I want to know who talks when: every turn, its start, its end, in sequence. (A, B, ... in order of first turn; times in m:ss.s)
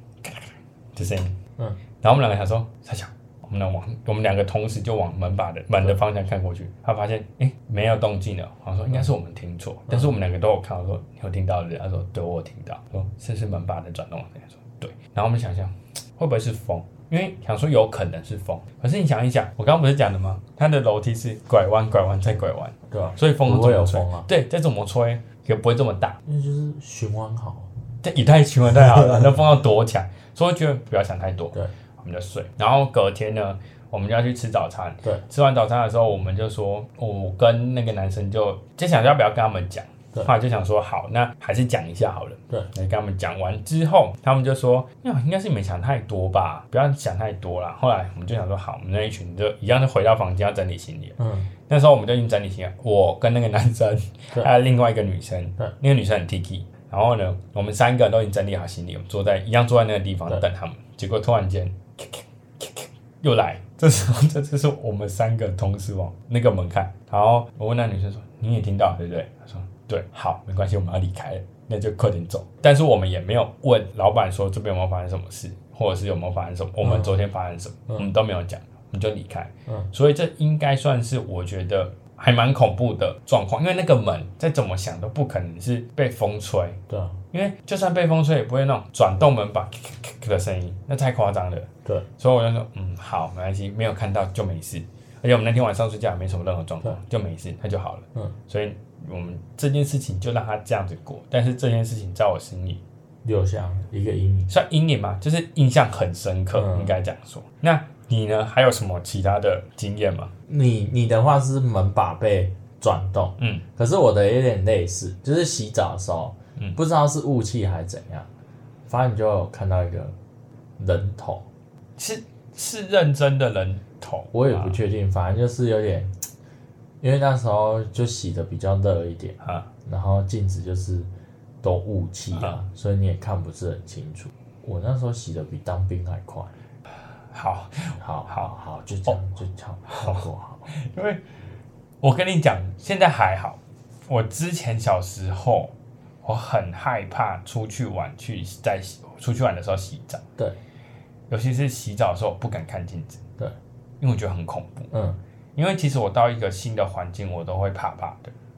0:00.2-0:01.4 A
0:02.0-0:26.2 A
0:09.9-0:10.1 B
0:22.9-0:24.3 B
0:26.3-0:27.7 B
0:28.0-1:26.8 A
0:28.7-0:29.4 B
0:51.2-0:51.5 B
1:16.8-1:17.1 B
1:26.9-1:27.2 B
1:27.3-1:42.8 A
1:43.2-1:44.5 B
1:44.5-1:50.3 A
1:46.5-1:47.0 B
1:50.5-1:58.3 B
1:58.9-2:00.2 B
2:00.8-2:01.4 B
2:02.0-2:04.8 A
2:04.3-2:06.1 B
2:07.0-2:11.1 B
2:09.4-2:09.7 A
2:11.6-2:16.5 B
2:17.3-2:18.5 A
2:18.0-2:20.7 B
2:19.9-2:21.2 A
2:22.0-2:25.7 A
2:26.2-2:30.2 A
2:31.3-2:33.2 A
2:34.0-2:34.9 A
2:34.9-2:35.2 B
2:35.6-2:38.3 A